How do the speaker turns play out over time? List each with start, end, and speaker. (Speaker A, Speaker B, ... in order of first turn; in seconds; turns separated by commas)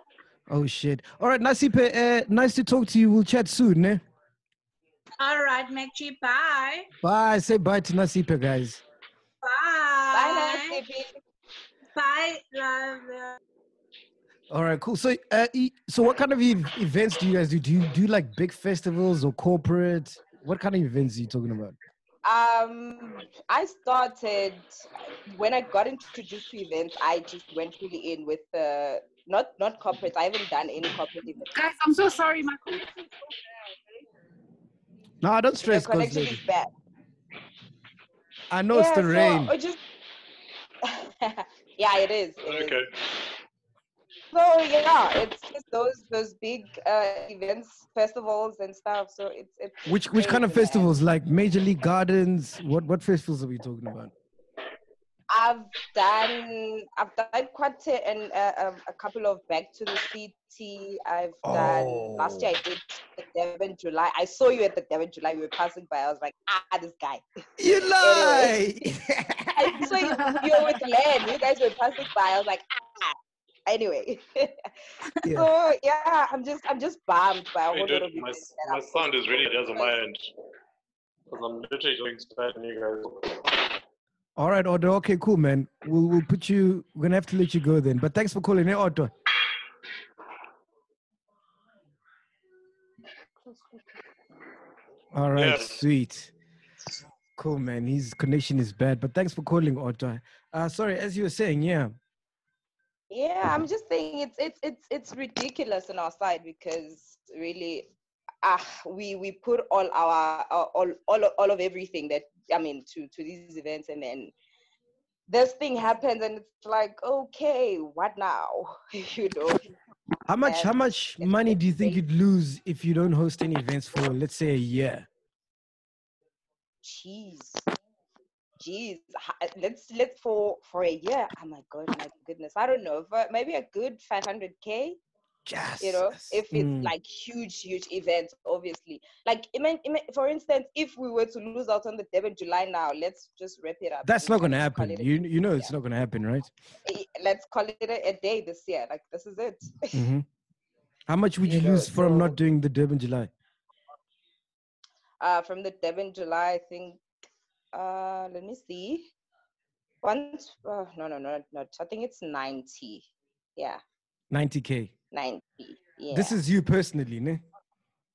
Speaker A: 0.5-4.0, Speaker B: 5.2-6.9, Speaker A: 7.0-8.8, Speaker B: 9.4-10.8, Speaker C: 10.1-11.1, Speaker B: 11.9-13.4, Speaker A: 14.5-21.8, Speaker C: 22.2-24.7, Speaker C: 25.3-31.5, Speaker D: 31.5-33.1, Speaker A: 35.2-36.4, Speaker C: 35.6-36.7, Speaker A: 38.5-39.5, Speaker C: 38.7-39.8, Speaker C: 40.9-42.8, Speaker E: 42.4-42.9, Speaker C: 44.3-50.9, Speaker A: 49.9-54.1, Speaker C: 55.3-67.2, Speaker A: 61.4-62.5, Speaker A: 67.6-69.5, Speaker C: 68.0-68.6, Speaker C: 69.6-73.2, Speaker D: 69.8-70.8, Speaker C: 73.7-74.5, Speaker C: 75.2-80.0, Speaker E: 77.7-80.3, Speaker E: 81.3-83.6, Speaker A: 84.4-89.1, Speaker A: 95.1-96.3, Speaker E: 95.3-95.8, Speaker A: 97.4-101.9, Speaker C: 103.1-107.9, Speaker C: 108.4-114.3, Speaker C: 115.3-119.6, Speaker A: 120.3-125.0, Speaker C: 120.4-122.0, Speaker C: 126.8-127.6, Speaker C: 128.6-135.0, Speaker A: 135.4-136.9, Speaker C: 135.8-145.7, Speaker A: 144.0-146.5, Speaker C: 146.8-149.9, Speaker A: 149.9-150.2, Speaker A: 151.1-153.3, Speaker C: 151.4-152.3, Speaker C: 155.2-157.0, Speaker C: 157.7-159.1, Speaker C: 160.0-163.1, Speaker A: 164.3-164.9, Speaker C: 165.1-166.4, Speaker A: 166.1-167.4